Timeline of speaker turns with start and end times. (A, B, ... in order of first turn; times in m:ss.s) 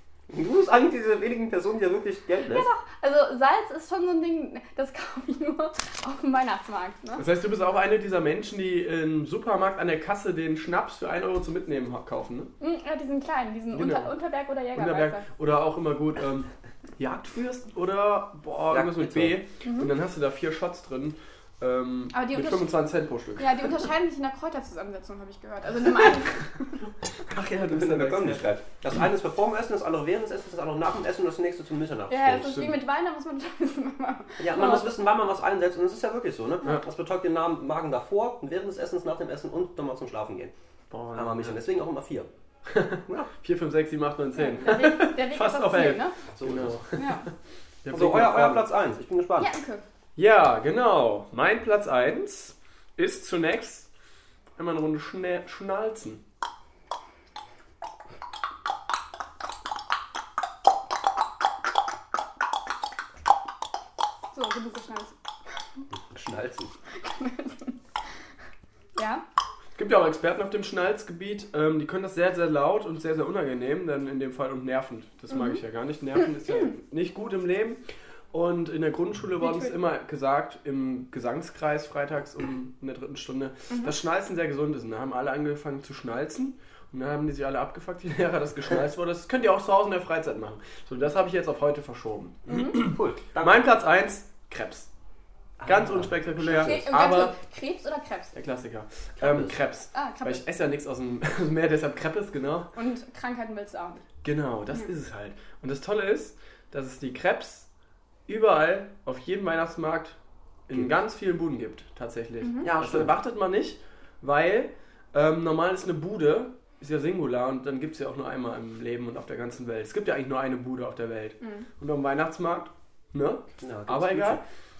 0:00.3-0:02.7 A
0:02.5-0:07.2 B
0:07.2-0:12.5 C
0:12.6-0:15.2 B
0:13.7-0:14.1 C
0:14.7-0:23.7 C
0:18.7-0:19.4 A
0:19.6-0:19.9 B
0:22.1-0:22.7 B
0:23.4-0:26.8 B
0:27.3-0:28.5 C
0:27.5-0:32.7 A
0:32.1-0:35.0 B
0:32.4-0:32.8 C
0:34.4-0:40.5 A
0:40.9-0:41.6 C
0:41.1-0:42.3 A
0:42.7-0:47.3 C
0:44.4-0:46.1 B
0:46.3-0:46.8 A
0:46.9-0:47.2 B
0:47.8-0:48.6 C
0:47.9-0:49.5 A
0:49.4-0:49.8 B
0:50.2-0:53.9 C
0:54.6-0:56.2 C
1:04.3-1:05.2 B
1:05.9-1:06.7 A
1:07.0-1:07.8 B
1:09.0-1:09.2 B
1:09.8-1:17.8 C
1:15.3-1:15.6 B
1:18.3-1:34.9 C
1:19.4-1:19.7 B
1:32.5-1:32.8 B
1:32.7-1:33.7 A
1:35.6-1:36.9 A
1:35.6-1:37.3 C
1:36.6-1:38.4 B
1:38.3-1:42.7 C
1:39.2-1:39.6 A
1:39.9-1:40.4 B
1:42.7-1:44.0 B
1:44.2-1:47.7 C
1:48.3-1:50.2 C
1:50.7-2:04.4 C
1:52.4-1:52.7 B
1:52.6-1:53.1 A
2:03.6-2:04.4 A